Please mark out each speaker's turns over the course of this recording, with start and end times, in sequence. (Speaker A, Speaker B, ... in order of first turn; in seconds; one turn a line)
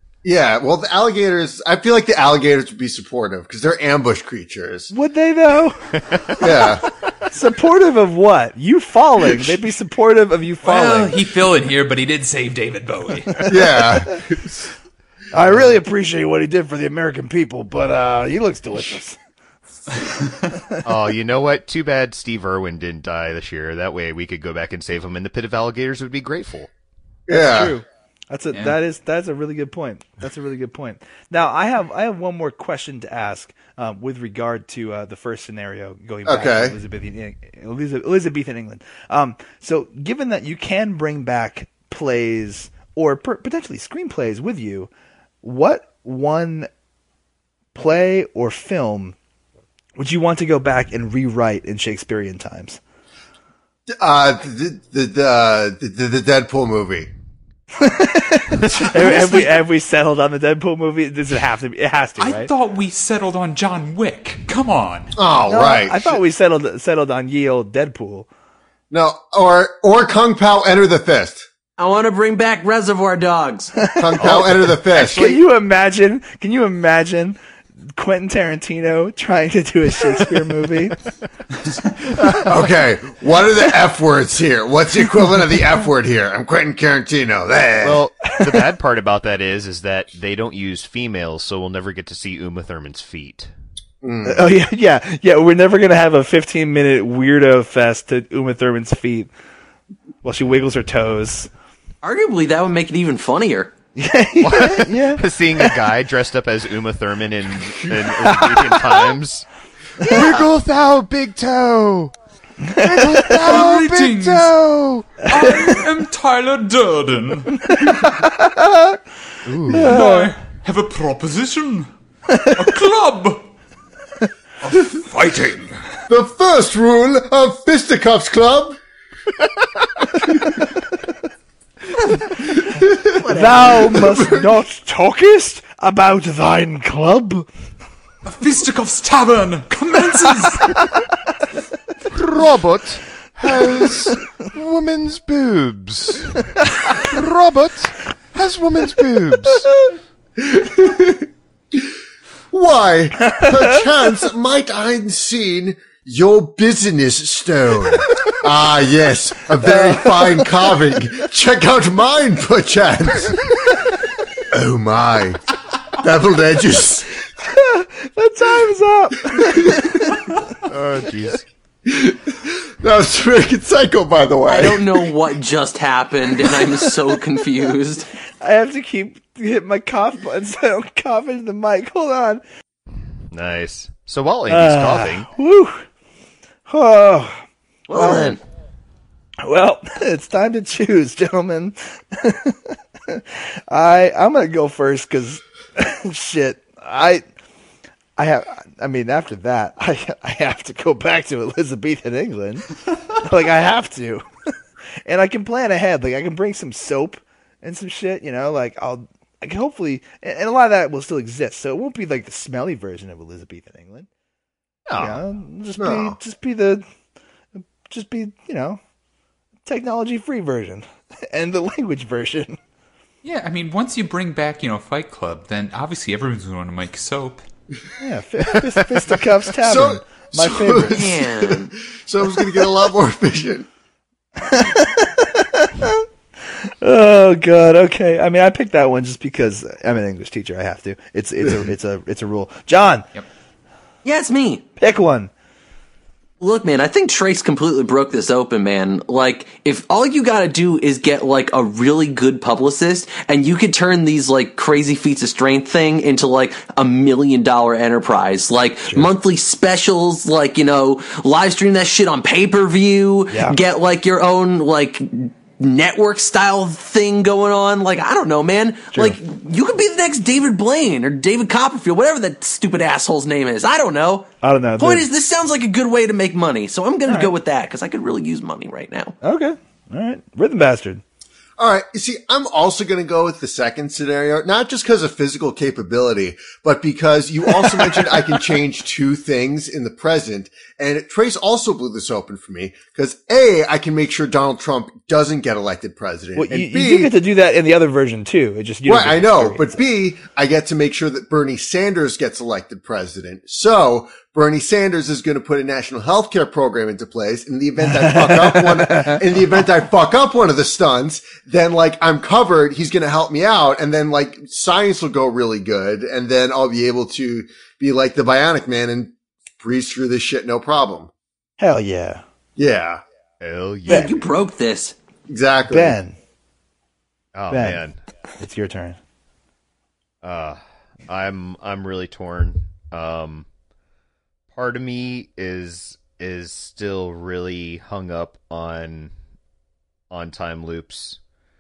Speaker A: 0.2-4.9
Speaker B: 4.9-11.2
Speaker C: 6.1-6.4
Speaker A: 6.4-6.8
Speaker D: 10.6-13.5
Speaker A: 13.4-14.5
Speaker B: 15.3-19.2
Speaker D: 20.1-20.4
Speaker C: 20.8-26.7
Speaker A: 27.3-27.8
Speaker B: 27.3-44.9
Speaker A: 36.3-36.8
Speaker B: 45.4-46.7
Speaker B: 47.7-49.2
Speaker B: 50.0-52.8
Speaker A: 54.0-57.1
Speaker B: 57.8-62.5
Speaker D: 62.2-65.2
Speaker A: 65.2-66.2
Speaker B: 65.5-68.3
Speaker A: 68.9-71.5
Speaker E: 71.8-73.8
Speaker B: 73.8-77.4
Speaker A: 74.0-75.4
Speaker B: 78.0-81.0
Speaker A: 82.3-88.0
Speaker C: 87.8-93.5
Speaker A: 94.0-94.5
Speaker B: 94.2-99.3
Speaker B: 100.2-101.5
Speaker E: 102.0-103.7
Speaker B: 104.0-105.8
Speaker C: 104.4-109.5
Speaker C: 110.0-112.1
Speaker B: 112.6-113.6
Speaker C: 112.8-115.3
Speaker D: 113.4-114.5
Speaker D: 115.2-117.7
Speaker B: 115.4-115.7
Speaker B: 117.6-119.0
Speaker C: 119.5-120.0
Speaker B: 119.7-120.3
Speaker D: 119.8-121.9
Speaker B: 122.3-122.6
Speaker D: 122.5-123.5
Speaker D: 124.6-125.8
Speaker A: 126.1-128.8
Speaker A: 130.2-130.6
Speaker A: 132.2-134.6
Speaker E: 133.2-133.8
Speaker B: 133.3-137.5
Speaker D: 138.2-140.8
Speaker C: 142.1-149.7
Speaker A: 150.4-151.9
Speaker A: 152.5-163.8
Speaker B: 159.6-160.4
Speaker A: 164.5-167.2
Speaker B: 167.4-170.3
Speaker A: 169.3-170.1
Speaker C: 170.5-171.5
Speaker A: 171.9-175.2
Speaker E: 174.5-178.1
Speaker B: 178.4-182.4
Speaker C: 183.3-185.3
Speaker B: 184.5-185.8
Speaker B: 186.7-187.4
Speaker E: 187.9-188.4
Speaker B: 187.9-188.4
Speaker B: 189.4-197.2
Speaker B: 198.2-204.2
Speaker B: 205.1-214.1
Speaker C: 214.9-215.2
Speaker B: 215.0-216.8
Speaker A: 215.8-216.2
Speaker B: 217.6-218.8
Speaker B: 219.7-222.6
Speaker D: 223.2-227.4
Speaker B: 228.0-231.0
Speaker A: 229.6-233.7
Speaker E: 230.9-231.7
Speaker B: 234.4-236.1
Speaker B: 236.7-243.1
Speaker E: 244.0-244.7
Speaker B: 244.8-245.3
Speaker E: 246.4-274.3
Speaker B: 263.3-263.6
Speaker B: 274.4-275.1
Speaker E: 274.8-279.1
Speaker B: 277.1-277.3
Speaker B: 279.2-281.0
Speaker A: 281.6-297.1
Speaker B: 287.6-288.1
Speaker B: 296.4-299.8
Speaker A: 298.9-321.1
Speaker B: 307.9-309.2
Speaker B: 321.6-322.2
Speaker A: 322.6-323.0
Speaker C: 323.4-324.1
Speaker E: 323.9-324.9
Speaker B: 323.9-324.1
Speaker A: 325.3-326.0
Speaker B: 325.7-326.1
Speaker C: 327.3-328.0
Speaker B: 327.5-327.9
Speaker B: 328.4-329.0
Speaker C: 330.2-333.5
Speaker C: 334.5-339.1
Speaker C: 340.1-341.2